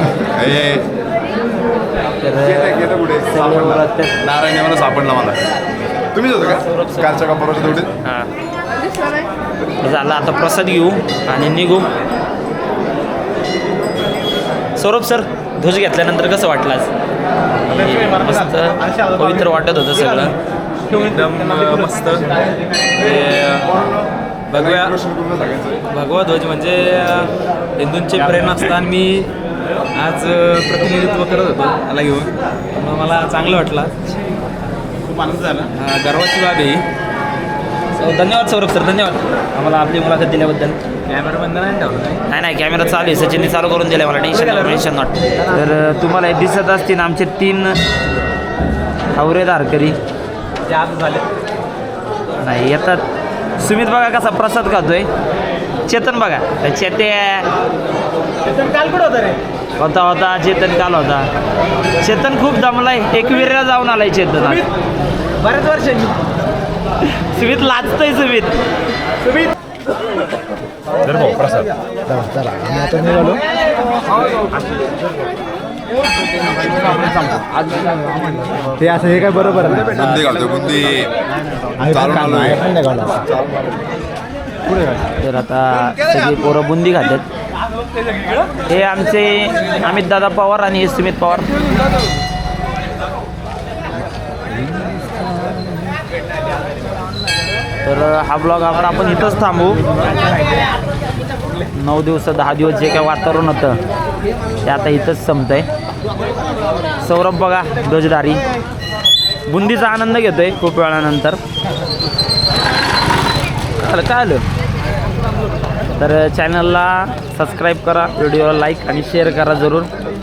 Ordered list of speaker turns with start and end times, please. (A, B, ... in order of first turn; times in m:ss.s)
0:00.1-0:00.9 A
0:02.2-0:04.1 B
0:02.4-0:05.4 A
0:06.1-0:07.9 A
0:06.5-0:07.4 B
0:08.0-0:08.3 B
0:09.8-0:11.9 B
0:14.8-0:16.9 B
0:17.6-0:20.3 B
0:20.9-0:23.7 C
0:23.7-0:25.8 A
0:24.5-0:24.9 C
0:25.9-0:29.3 C
0:29.9-0:33.9 C
0:35.0-0:36.8 C
0:38.0-0:40.8 B
0:41.1-0:42.2 C
0:42.3-0:47.8 B
0:49.1-0:50.0 B
0:50.7-0:51.2 C
0:52.4-0:53.0 B
0:53.6-0:55.1 B
0:55.9-0:57.5 B
0:59.8-1:01.3 B
1:02.0-1:04.7 B
1:07.0-1:08.6 B
1:11.2-1:11.6 A
1:12.1-1:13.4 D
1:18.8-1:19.8 D
1:19.7-1:21.1 A
1:21.8-1:23.6 A
1:25.2-1:27.2 B
1:28.6-1:31.6 B
1:37.8-1:40.0 B
1:41.7-1:43.8 B
1:44.6-1:45.7 B
1:47.0-1:48.4 B
1:49.5-1:51.4 B
1:53.8-1:54.4 B
1:56.0-1:59.9 B